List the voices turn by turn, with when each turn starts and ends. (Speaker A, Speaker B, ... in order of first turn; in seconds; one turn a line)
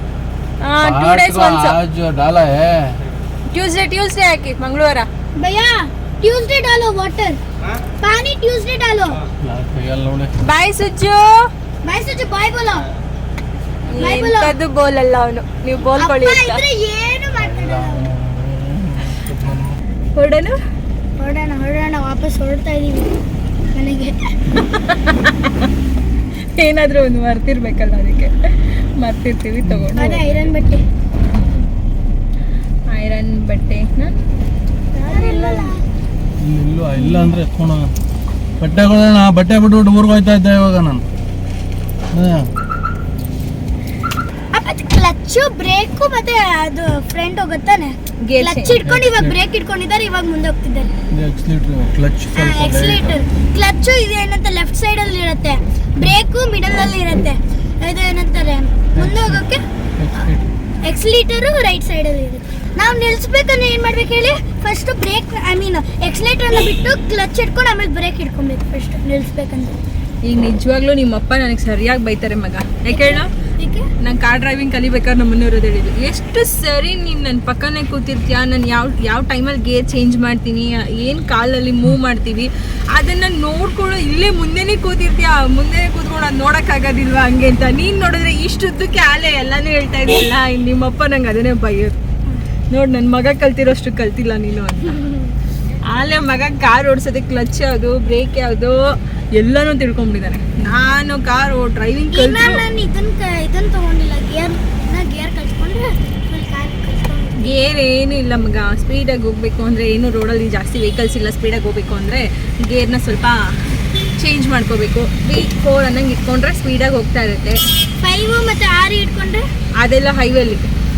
Speaker A: 0.6-1.8
Speaker B: 0.8-3.0
Speaker A: 3.5-5.1
Speaker C: 5.3-7.4
Speaker C: 8.0-9.2
Speaker B: 9.4-10.3
Speaker A: 10.4-11.5
Speaker C: 11.8-12.9
Speaker A: 13.9-16.6
Speaker C: 14.0-14.5
Speaker C: 15.9-18.1
Speaker B: 17.4-19.7
Speaker A: 20.1-20.6
Speaker C: 21.2-23.1
Speaker C: 23.7-24.3
Speaker A: 24.5-25.5
Speaker A: 26.5-30.5
Speaker C: 29.9-30.8
Speaker A: 31.3-31.7
Speaker A: 32.9-34.1
Speaker C: 34.9-35.8
Speaker A: 35.1-35.6
Speaker B: 36.4-37.9
Speaker A: 37.0-37.3
Speaker B: 38.6-41.0
Speaker B: 42.1-42.5
Speaker C: 44.5-50.9
Speaker A: 48.2-48.8
Speaker B: 48.9-49.3
Speaker B: 51.1-53.2
Speaker C: 52.3-59.6
Speaker B: 59.0-59.4
Speaker B: 60.0-60.5
Speaker C: 60.8-69.8
Speaker A: 70.2-73.3
Speaker C: 72.9-73.9
Speaker A: 74.0-92.0
Speaker A: 92.7-95.0
Speaker A: 95.8-102.7
Speaker C: 102.1-107.6
Speaker A: 107.3-113.5
Speaker A: 114.2-117.6
Speaker C: 118.0-119.5
Speaker A: 119.8-120.7